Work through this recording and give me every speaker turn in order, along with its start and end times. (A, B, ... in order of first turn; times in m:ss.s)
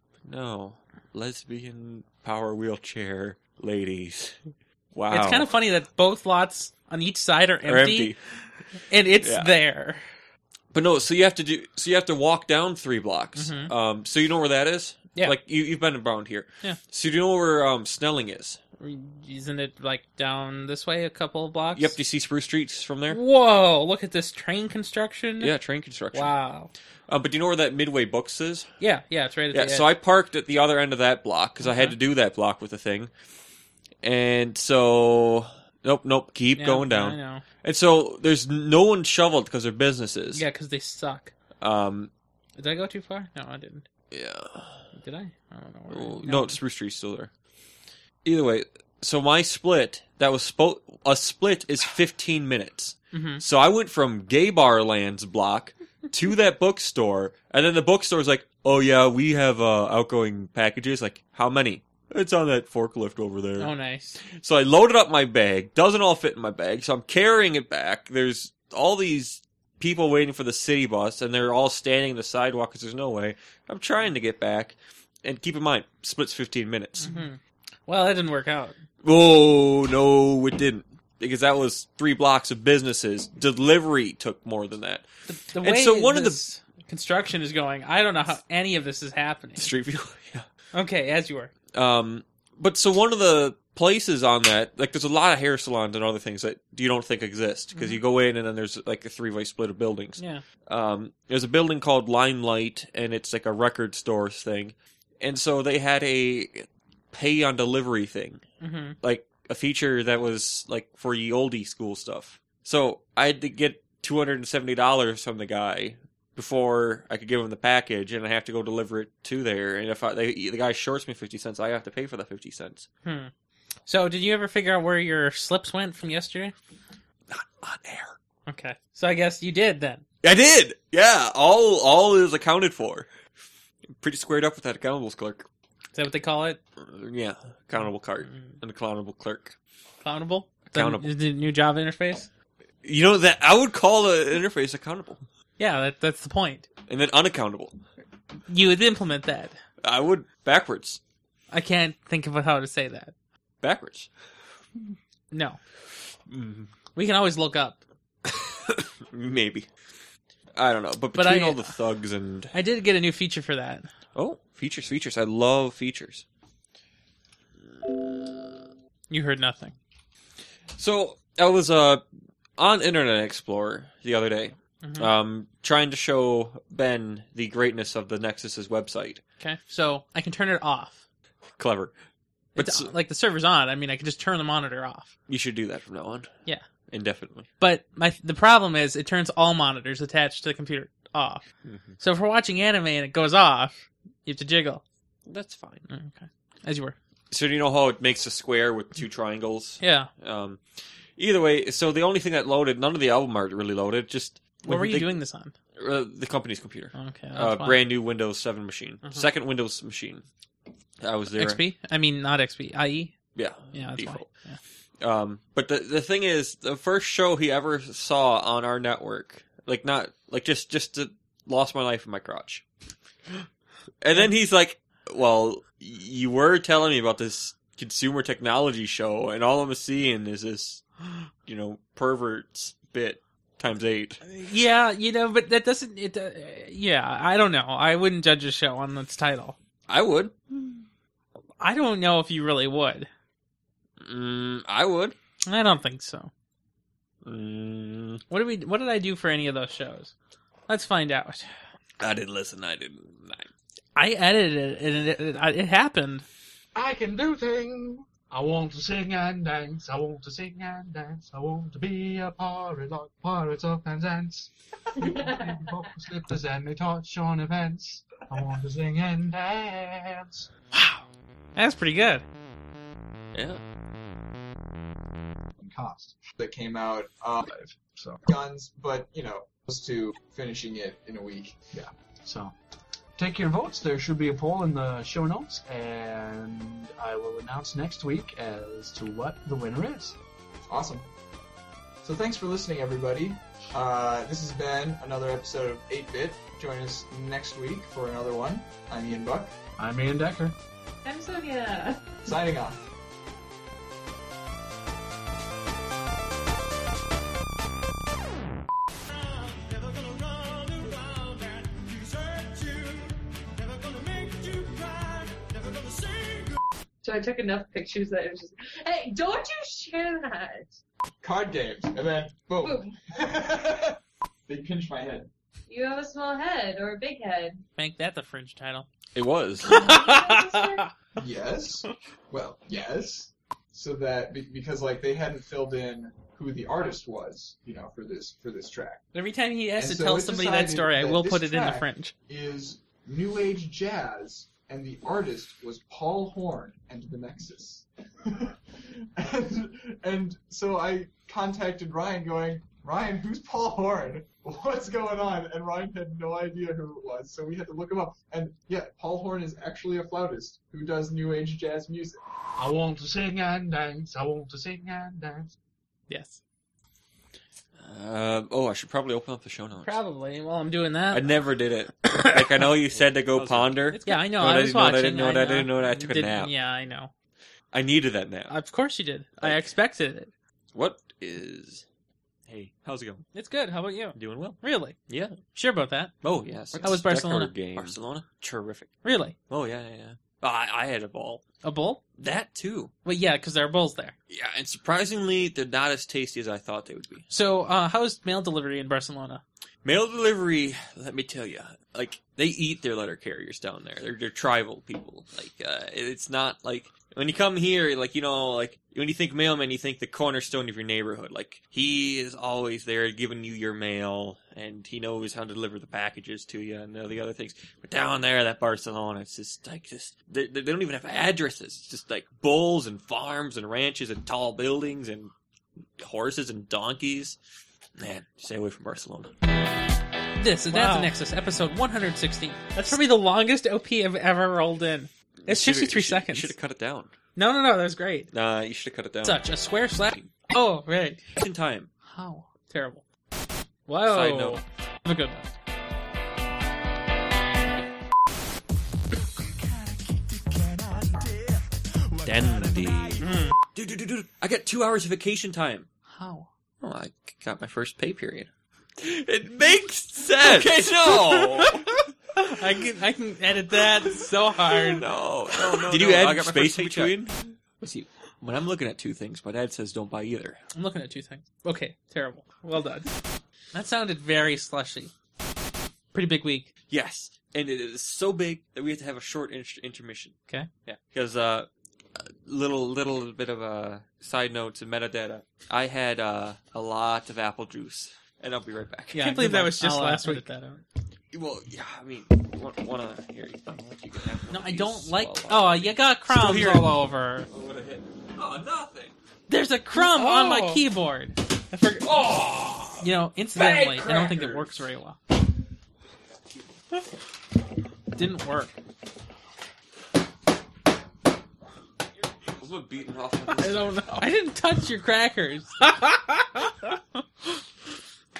0:00.3-0:04.4 A
0:04.9-0:05.5 A
0:05.1-0:08.1 B
0:07.6-0:08.2 A
0:08.9-0:10.0 B
0:09.2-0:09.5 A
0:10.7-0:18.6 A
0:13.4-0:13.7 B
0:18.8-0:22.0 B
0:21.8-0:23.2 A
0:23.1-0:25.5 B
0:25.4-0:26.4 A
0:26.1-0:26.7 B
0:27.1-0:28.7 A
0:28.8-0:29.9 B
0:29.5-0:33.1 A
0:31.6-0:32.0 B
0:34.0-0:40.4 A
0:36.6-0:37.4 B
0:40.3-0:41.3 B
0:41.6-0:42.1 A
0:42.6-0:43.9 B
0:44.1-0:44.8 A
0:45.0-0:46.6 B
0:45.9-0:47.3 A
0:48.2-1:03.7 A
0:53.1-0:53.4 B
1:03.6-1:04.2 B
1:04.3-1:17.2 A
1:17.0-1:18.8 B
1:19.0-1:25.1 A
1:25.3-1:29.7 B
1:25.6-1:26.4 A
1:29.6-1:30.5 A
1:30.7-1:31.5 B
1:31.7-1:48.4 A
1:37.7-1:38.0 B
1:40.2-1:40.4 B
1:48.6-1:49.0 B
1:49.0-2:02.9 A
2:03.0-2:03.3 B
2:03.9-2:06.6 B
2:07.3-2:08.2 A
2:08.5-2:10.0 B
2:10.2-2:13.1 A
2:14.0-2:15.5 A
2:15.9-2:16.6 B
2:16.8-2:19.6 A
2:18.3-2:18.5 B
2:20.0-2:22.3 B
2:20.7-2:21.1 A
2:22.8-2:25.2 A
2:25.6-2:26.7 B
2:26.9-2:27.8 A
2:28.5-2:29.6 B
2:29.8-2:31.0 A
2:31.5-2:33.1 B
2:33.6-2:34.1 A
2:35.3-2:35.6 B
2:36.3-2:36.7 A
2:37.0-2:37.8 B
2:38.3-2:39.7 A
2:40.5-2:42.5 A
2:41.2-2:41.8 B
2:42.5-2:43.9 B
2:44.2-2:46.2 A
2:47.7-2:48.6 A
2:49.1-2:49.8 B
2:50.8-2:52.0 A
2:52.6-2:59.2 A
2:54.8-2:55.1 B
2:59.4-3:01.0 B
3:01.6-3:01.9 A
3:02.6-3:02.9 A
3:02.6-3:05.1 B
3:05.3-3:06.3 A
3:06.9-3:07.5 A
3:07.6-3:11.4 B
3:11.6-3:12.0 A
3:12.0-3:14.8 B
3:15.3-3:15.8 A
3:15.9-3:17.0 B
3:17.3-3:20.6 A
3:19.8-3:20.1 B
3:21.2-3:25.2 A
3:24.6-3:25.5 B
3:25.8-3:30.3 A
3:27.0-3:27.8 B
3:31.0-3:31.6 A
3:31.3-3:33.1 B
3:33.4-3:34.3 A
3:33.7-3:34.6 B
3:35.0-3:42.6 A
3:44.0-3:50.8 A
3:51.4-3:54.2 A
3:54.2-3:59.6 B
3:59.9-4:00.4 A
4:00.5-4:00.8 B
4:01.6-4:03.1 B
4:04.0-4:05.2 A
4:05.5-4:06.3 B
4:07.2-4:08.2 A
4:08.3-4:10.1 B
4:10.7-4:11.5 B
4:12.0-4:13.5 A
4:14.0-4:16.2 B
4:16.7-4:30.5 C
4:25.0-4:25.7 D
4:30.7-4:31.0 B
4:31.6-4:32.2 B
4:33.3-4:33.6 A
4:35.6-4:36.2 C
4:36.4-4:37.5 E
4:37.5-4:38.2 C
4:38.2-4:41.8 E
4:41.7-4:42.6 C
4:43.2-4:50.2 C
4:50.7-4:51.1 E
4:52.0-4:59.5 E
4:59.8-5:00.6 C
5:01.0-5:02.2 D
5:02.2-5:02.8 E
5:17.0-5:20.8 D
5:21.2-5:25.3 E
5:22.6-5:22.9 D
5:25.7-5:27.6 D
5:27.8-5:28.9 B
5:29.2-5:29.8 A
5:29.6-5:30.9 B
5:29.6-5:30.9 D
5:31.2-5:39.1 E
5:39.1-5:42.1 B
5:39.8-6:02.2 E
6:02.6-6:05.5 C
6:06.1-6:06.4 B
6:07.8-6:10.0 A
6:09.8-6:11.3 B
6:11.1-6:16.5 A
6:12.1-6:12.6 B
6:13.4-6:17.1 B
6:17.7-6:18.5 A
6:18.5-6:20.3 B
6:19.4-6:19.7 A
6:20.7-6:21.8 A
6:22.5-6:23.2 A
6:23.3-6:25.0 B
6:24.2-6:24.6 A
6:25.1-6:25.4 A
6:25.5-6:26.1 B
6:26.2-6:29.0 A
6:26.8-6:27.9 B
6:29.0-6:29.4 B
6:29.5-6:31.4 A
6:31.6-6:32.0 B
6:32.2-6:32.9 A
6:33.0-6:34.2 B
6:34.3-6:37.3 A
6:37.3-6:39.4 B
6:39.8-7:05.3 A
7:06.0-7:07.4 A
7:08.0-7:09.4 A
7:10.4-7:16.5 B
7:10.7-7:11.1 A
7:15.4-7:17.1 A
7:17.4-7:18.3 B
7:18.3-7:19.5 A
7:19.2-7:21.2 B
7:20.0-7:20.3 A
7:21.4-7:21.9 A
7:22.1-7:23.0 B
7:23.9-7:25.5 B
7:24.0-7:24.6 A
7:32.2-7:35.9 A
7:33.2-7:33.6 B
7:36.1-7:36.5 B
7:36.8-7:41.9 A
7:40.4-7:47.2 B
7:44.7-7:50.6 A
7:50.8-7:53.1 B
7:53.7-7:55.1 B
7:56.1-7:56.7 B
7:56.9-8:10.4 A
8:09.1-8:10.8 B
8:11.3-8:19.2 A
8:14.5-8:17.5 B
8:19.5-8:22.1 B
8:20.0-8:20.8 A
8:22.0-8:24.8 A
8:23.0-8:25.2 B
8:28.2-8:28.8 B
8:32.5-8:34.2 A
8:33.5-8:37.6 B